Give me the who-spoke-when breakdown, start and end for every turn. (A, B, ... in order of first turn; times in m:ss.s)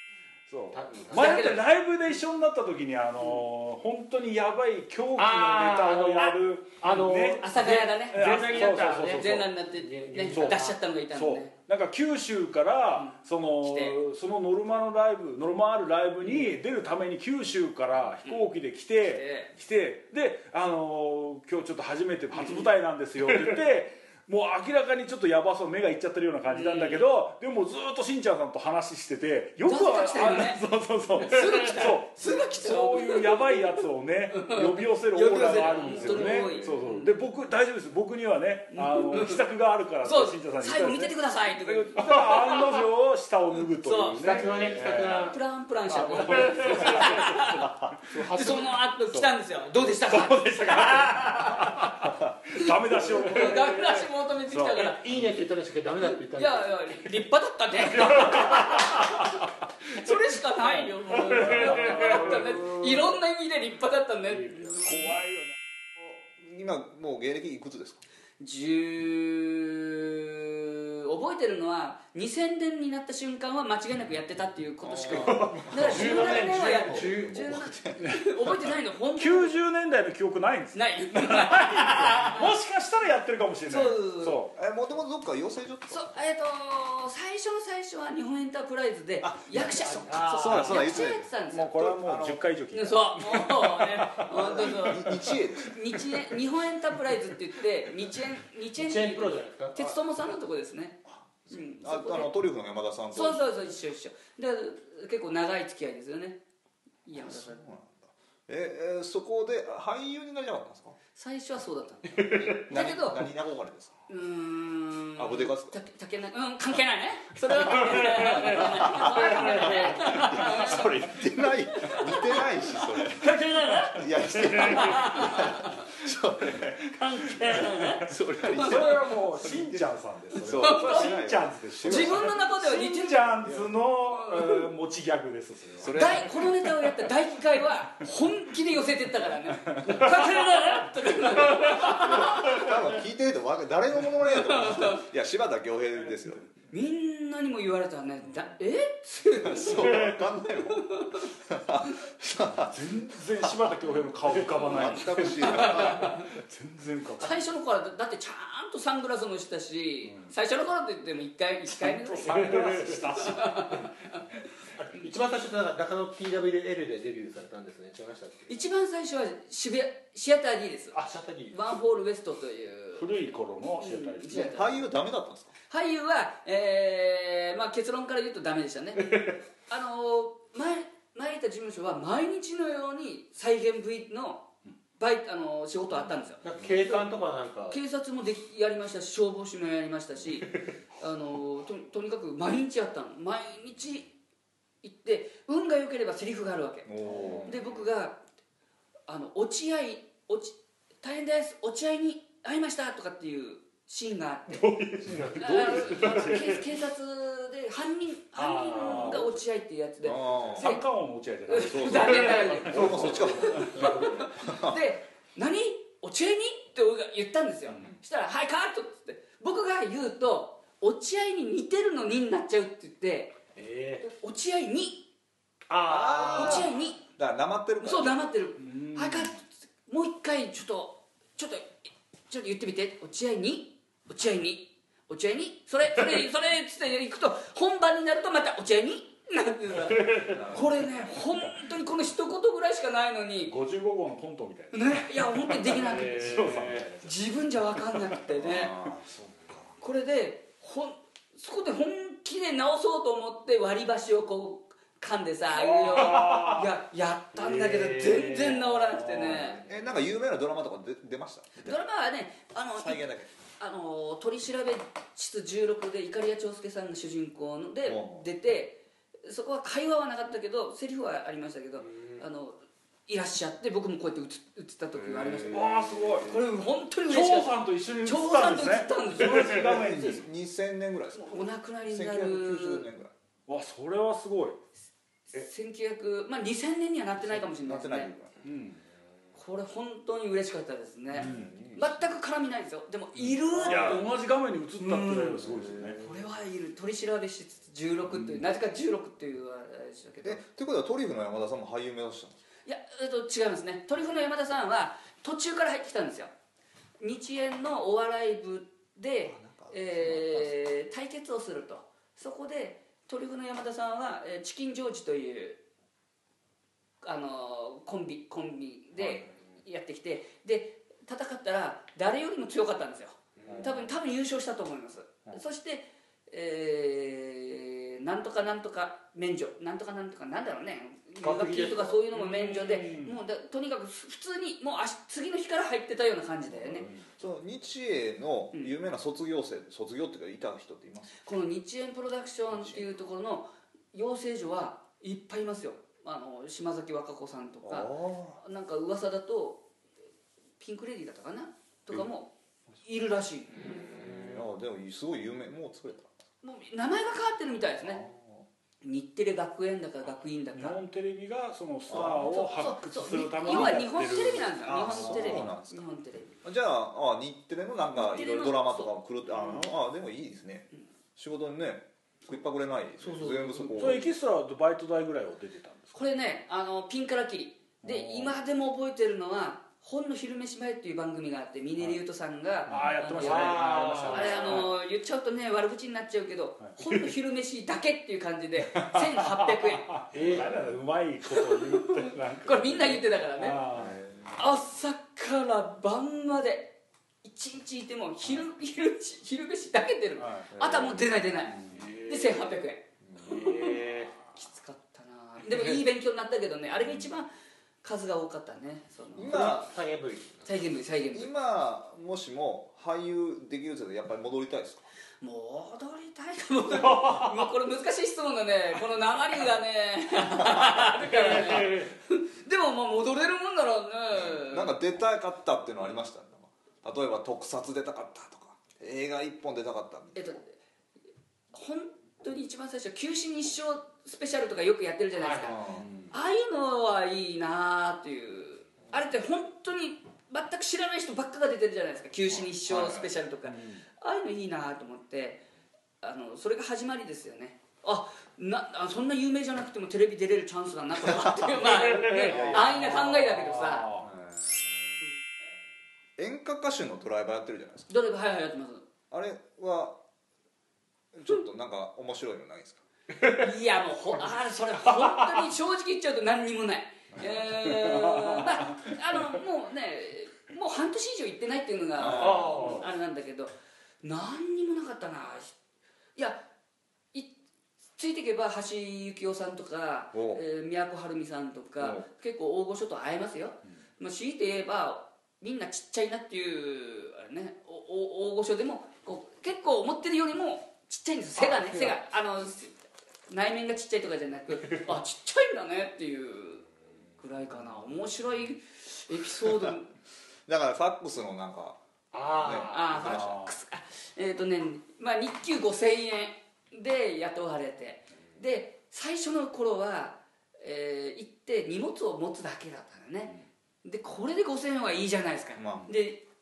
0:00.5-0:09.5 A
0:00.7-0:01.5 B
0:01.1-0:01.6 C
0:05.2-0:10.7 B
0:07.4-0:11.5 C
0:10.3-0:45.3 A
0:13.0-0:13.9 C
0:18.2-0:19.5 C
0:22.3-0:22.7 C
0:26.5-0:27.1 C
0:29.6-0:30.6 C
0:31.2-0:33.8 C
0:34.3-0:37.1 C
0:35.4-0:36.5 B
0:38.7-0:39.4 C
0:40.0-0:42.7 C
0:43.8-0:44.5 C
0:43.9-0:45.4 B
0:45.3-0:51.9 C
0:45.9-0:49.3 A
0:46.2-0:47.2 B
0:48.1-0:48.5 B
0:49.8-0:54.9 A
0:52.5-0:55.0 C
0:54.8-0:57.1 B
0:56.0-1:05.2 C
0:58.0-0:59.3 A
1:00.6-1:02.8 A
1:01.1-1:03.0 B
1:04.3-1:05.0 B
1:04.8-1:05.5 A
1:06.0-1:08.0 D
1:08.4-1:19.5 C
1:14.8-1:18.6 D
1:15.6-1:16.2 A
1:15.7-1:17.4 B
1:19.2-1:24.5 A
1:20.7-1:22.5 C
1:23.6-1:24.4 C
1:24.5-1:26.1 D
1:25.9-1:31.8 C
1:29.2-1:32.4 D
1:29.6-1:31.1 B
1:31.5-1:35.2 A
1:32.7-1:42.3 C
1:34.3-1:36.0 D
1:38.7-1:39.7 B
1:41.1-1:43.7 D
1:43.1-1:46.4 C
1:47.0-1:47.6 C
1:47.1-1:51.0 D
1:51.1-1:53.3 C
1:52.2-1:53.9 D
1:54.1-2:01.2 C
1:55.2-1:55.7 D
1:58.4-2:03.3 D
2:01.8-2:02.8 C
2:03.1-2:05.0 A
2:03.9-2:06.8 D
2:04.6-2:05.8 C
2:06.4-2:16.1 A
2:06.9-2:08.8 C
2:07.5-2:12.4 D
2:10.5-2:11.3 C
2:11.8-2:13.4 C
2:13.4-2:13.7 D
2:14.2-2:14.7 C
2:15.8-2:16.5 D
2:15.9-2:22.7 C
2:19.8-2:20.1 A
2:21.7-2:26.5 D
2:24.2-2:25.0 C
2:26.7-2:30.2 C
2:29.4-2:32.8 D
2:30.7-2:31.3 C
2:32.7-2:37.5 A
2:33.4-2:33.9 D
2:34.5-2:36.2 D
2:35.2-2:36.3 C
2:37.2-2:44.2 C
2:40.0-2:40.3 A
2:41.8-2:43.9 A
2:42.2-2:43.4 B
2:44.7-2:48.6 B
2:48.5-2:51.0 C
2:50.9-2:51.6 B
2:51.5-2:53.1 C
2:53.0-2:54.8 A
2:53.8-2:54.7 C
2:54.3-2:55.5 D
2:55.7-3:04.5 C
2:59.0-2:59.4 B
3:05.0-3:07.0 C
3:06.4-3:07.8 B
3:07.7-3:14.1 C
3:14.8-3:18.2 C
3:16.8-3:17.6 D
3:17.0-3:17.5 B
3:19.1-3:24.8 C
3:24.5-3:26.6 B
3:25.3-3:30.8 C
3:26.0-3:26.5 A
3:28.4-3:29.3 B
3:28.7-3:29.3 A
3:30.0-3:30.7 D
3:30.5-3:33.9 A
3:31.5-3:43.4 C
3:31.6-3:34.8 D
3:32.4-3:34.4 B
3:43.6-3:44.0 B
3:44.0-3:45.1 C
3:45.7-3:46.7 B
3:45.8-3:48.3 D
3:46.2-3:47.0 C
3:47.8-3:51.7 C
3:48.6-3:49.3 A
3:52.3-4:03.5 C
4:00.0-4:00.3 B
4:00.3-4:00.7 D
4:03.5-4:07.1 A
4:04.7-4:06.4 C
4:05.7-4:07.0 B
4:07.0-4:08.8 C
4:08.4-4:09.7 D
4:09.8-4:19.6 C
4:15.6-4:16.7 A
4:17.4-4:19.5 A
4:19.2-4:21.8 D
4:21.6-4:40.2 C
4:22.7-4:23.3 D
4:27.8-4:28.3 D
4:35.0-4:36.4 D
4:35.5-4:36.3 A
4:37.1-4:40.2 A
4:39.2-4:43.1 D
4:41.1-4:42.8 C
4:43.5-4:44.6 A
4:45.3-4:48.1 C
4:47.3-4:48.3 D
4:48.4-4:48.8 A
4:49.4-4:54.1 C
4:51.1-4:52.0 D
4:51.2-4:51.6 A
4:53.5-4:54.1 D
4:53.5-4:56.0 A
4:54.8-5:00.4 C
4:55.4-4:56.2 D
5:00.2-5:02.4 D
5:02.6-5:06.3 C
5:07.0-5:15.6 C
5:09.3-5:10.6 D
5:17.0-5:36.9 C
5:19.0-5:19.3 D
5:23.4-5:23.6 B
5:23.4-5:23.9 D
5:31.2-5:32.1 B
5:32.1-5:33.2 A
5:36.6-5:41.2 D
5:41.2-5:49.6 C
5:42.5-5:42.9 D
5:47.6-5:48.4 D
5:50.6-5:52.3 C
5:52.8-5:53.8 C
5:53.6-5:56.1 D
5:56.4-5:58.0 C
5:57.8-5:58.4 D
5:58.8-6:00.8 C
6:00.5-6:05.5 A
6:01.9-6:02.2 D
6:01.9-6:06.3 C
6:03.5-6:03.8 D
6:04.6-6:05.9 D
6:06.4-6:14.1 D
6:08.0-6:08.9 C
6:13.0-6:14.0 C
6:13.7-6:16.0 A
6:15.9-6:30.0 C
6:17.8-6:18.3 A
6:22.7-6:24.7 A
6:23.2-6:24.7 B
6:26.6-6:27.0 A
6:28.7-6:34.0 A
6:30.1-6:30.5 B
6:31.3-6:33.6 C
6:33.7-6:34.4 D
6:34.4-6:43.8 C
6:40.2-6:40.5 A
6:40.5-6:41.0 D
6:41.5-6:41.8 A
6:41.7-6:42.5 B
6:43.0-6:43.3 D
6:43.2-6:44.2 B
6:44.3-6:47.3 C
6:47.8-6:49.7 C
6:49.1-6:49.7 D
6:49.2-6:50.4 B
6:50.4-6:51.3 C
6:51.1-6:54.8 D
6:55.2-7:04.8 C
6:56.9-6:57.3 A
7:01.2-7:01.9 B
7:04.1-7:10.3 D
7:10.1-7:10.6 C
7:11.5-7:25.4 C
7:15.2-7:15.9 B
7:15.4-7:15.9 D
7:22.6-7:23.1 D
7:23.5-7:23.8 A
7:26.0-7:33.9 C
7:32.0-7:34.1 A
7:32.2-7:33.0 D
7:34.0-7:34.9 D
7:36.2-7:37.9 D
7:37.9-7:38.8 C
7:39.1-7:40.0 D
7:41.1-7:42.8 D
7:43.3-7:53.5 C
7:47.1-7:47.4 D
7:47.6-7:48.5 A
7:52.0-7:52.8 D
7:52.0-7:52.9 B
7:54.0-7:55.6 C
7:56.2-7:56.4 C
7:58.0-8:12.7 C
8:00.1-8:00.4 D
8:01.8-8:02.0 D
8:13.3-8:19.9 C
8:20.5-8:23.4 D
8:22.1-8:23.2 B
8:22.5-8:36.2 C
8:23.0-8:23.6 A
8:35.6-8:35.9 D